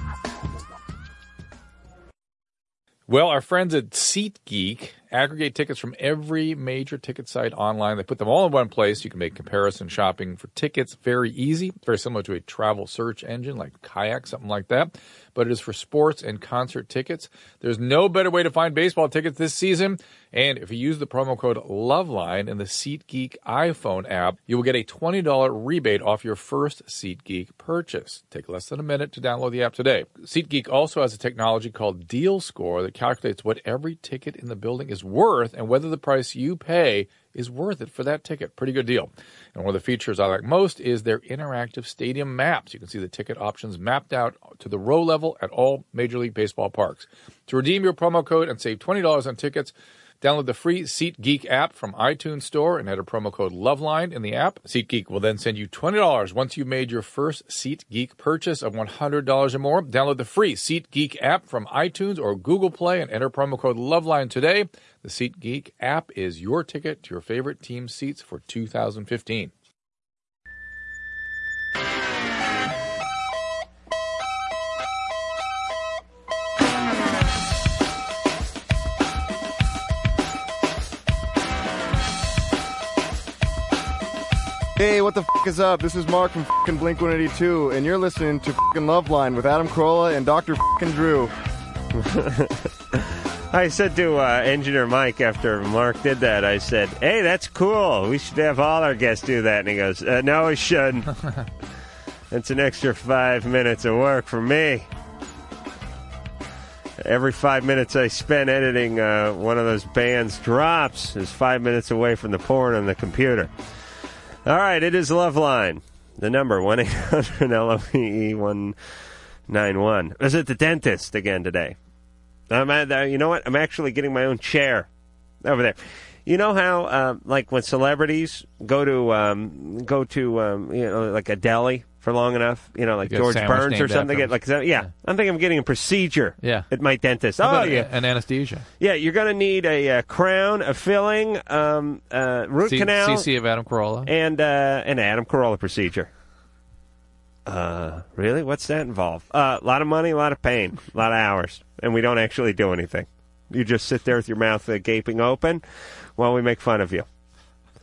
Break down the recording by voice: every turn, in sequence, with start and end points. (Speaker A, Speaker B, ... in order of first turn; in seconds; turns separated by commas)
Speaker A: 3.1-69.5, Speaker B: 84.8-91.3, Speaker C: 91.9-101.1, Speaker C: 102.3-104.9, Speaker C: 107.0-113.5, Speaker C: 114.5-118.8, Speaker C: 119.5-121.8, Speaker C: 122.5-124.9, Speaker C: 125.4-137.9, Speaker A: 133.1-134.9, Speaker A: 136.4-136.7, Speaker A: 137.4-138.7, Speaker C: 138.8-143.3, Speaker A: 142.7-144.1, Speaker C: 144.1-146.1, Speaker C: 147.5-155.6, Speaker C: 156.2-157.1